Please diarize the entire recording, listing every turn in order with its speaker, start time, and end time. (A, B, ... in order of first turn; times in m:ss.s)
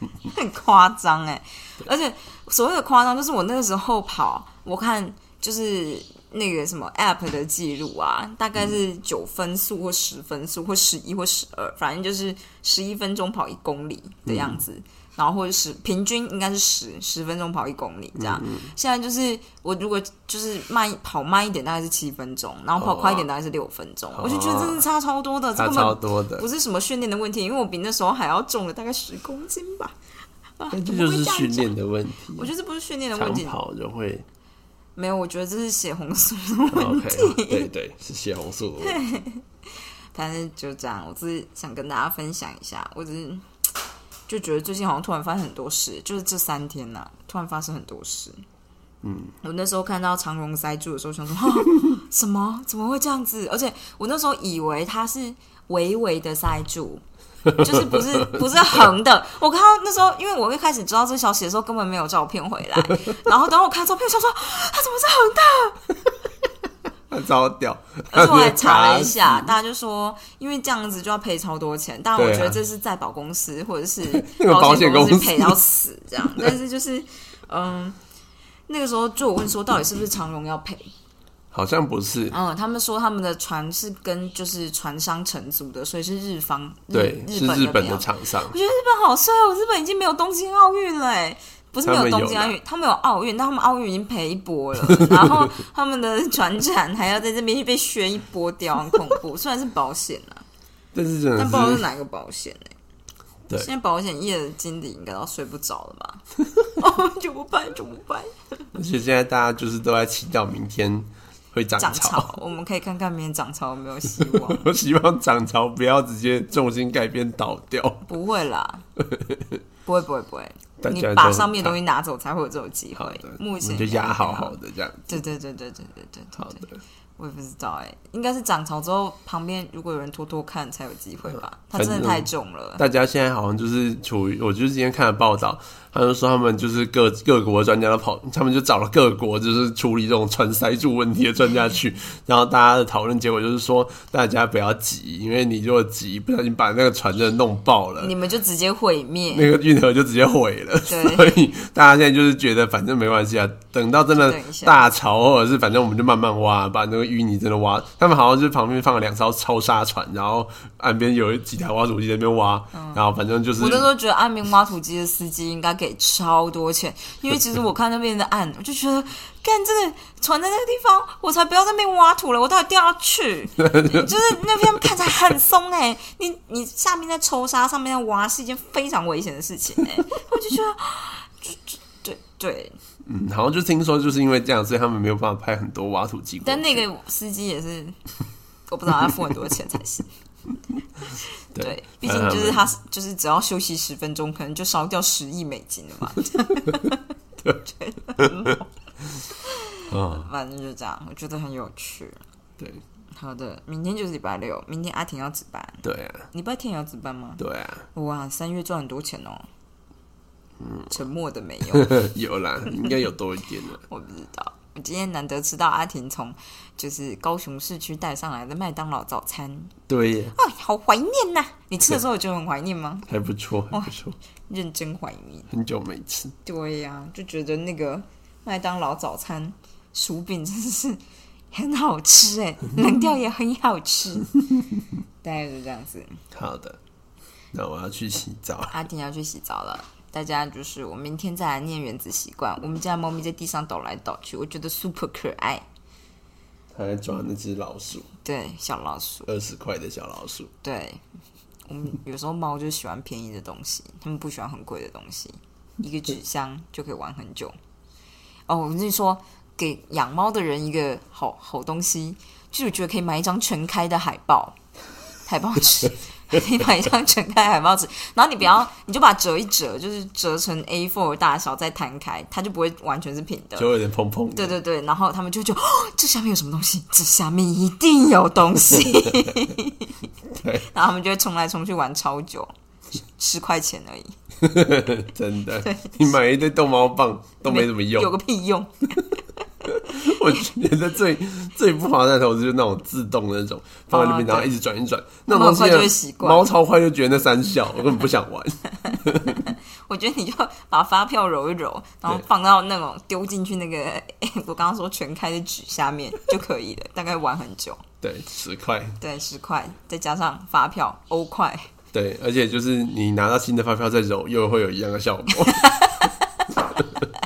0:00.2-0:30.0 A
0:14.2-0:14.6 B
0:18.2-0:18.7 B
0:22.8-0:23.3 B
0:24.1-0:24.8 B
0:25.6-0:26.5 B
0:30.6-0:31.7 A
0:30.7-0:32.5 B
0:32.3-0:33.6 A
0:33.2-0:34.2 B
0:35.0-0:37.7 A
0:36.7-0:39.0 B
0:38.8-0:39.4 A
0:40.1-0:43.5 A
0:44.3-0:48.4 A
0:49.0-0:49.3 B
0:49.4-0:57.0 A
0:57.4-0:58.8 B
0:57.5-1:05.9 A
1:07.1-1:09.5 B
1:08.1-1:18.0 A
1:12.2-1:12.6 B
1:14.0-1:15.6 B
1:18.7-1:20.9 A
1:21.5-1:22.4 B
1:22.3-1:40.4 A
1:26.9-1:28.5 B
1:31.8-1:32.6 B
1:34.9-1:35.5 B
1:40.9-1:41.8 B
1:41.4-1:42.7 A
1:43.5-1:46.2 A
1:46.8-1:48.3 A
1:48.7-1:52.3 B
1:51.8-1:54.7 A
1:54.2-1:58.1 B
1:58.0-1:58.8 A
1:59.0-1:59.6 B
1:59.8-2:04.6 A
2:00.8-2:01.7 B
2:03.0-2:05.2 B
2:05.1-2:12.8 A
2:06.4-2:06.8 B
2:11.7-2:28.1 B
2:28.0-2:29.5 A
2:29.3-2:43.9 B
2:30.9-2:31.3 A
2:34.2-2:34.9 A
2:42.7-2:43.0 A
2:43.6-3:02.8 A
2:53.6-2:54.1 B
3:03.0-3:06.8 B
3:06.4-3:08.0 A
3:08.7-3:10.1 A
3:11.0-3:17.1 A
3:11.5-3:12.7 B
3:17.6-3:18.7 A
3:18.2-3:18.5 B
3:19.3-3:22.2 A
3:19.9-3:20.3 B
3:23.1-3:27.4 A
3:25.8-3:26.2 B
3:27.4-3:27.8 B
3:27.9-3:29.4 A
3:30.6-3:30.9 B
3:30.9-3:32.0 A
3:31.7-3:33.8 B
3:33.9-3:39.7 A
3:39.9-3:40.4 B
3:40.3-3:43.1 A
3:43.1-3:44.2 B
3:44.5-3:45.5 A
3:45.5-3:46.3 B
3:46.4-3:51.0 A
3:51.5-3:54.3 A
3:55.2-3:56.2 A
3:56.3-3:56.8 B
3:57.5-3:58.7 B
3:58.7-4:05.6 A
4:06.7-4:08.1 B
4:08.2-4:09.3 A
4:09.3-4:10.5 B
4:10.6-4:11.0 A
4:11.7-4:17.6 A
4:18.5-4:24.6 A
4:25.2-4:33.7 A
4:33.6-4:34.6 B
4:34.3-4:40.0 A
4:40.3-4:40.7 B
4:40.6-4:42.5 A
4:43.2-4:44.1 A
4:44.4-4:48.1 B
4:45.6-4:46.0 A
4:47.4-4:50.3 A
4:49.6-4:59.5 B
4:53.9-4:54.5 A
4:55.3-4:56.5 A
4:58.9-5:07.8 A
5:08.0-5:09.0 B
5:09.0-5:11.7 A
5:11.9-5:16.1 B
5:15.3-5:16.6 A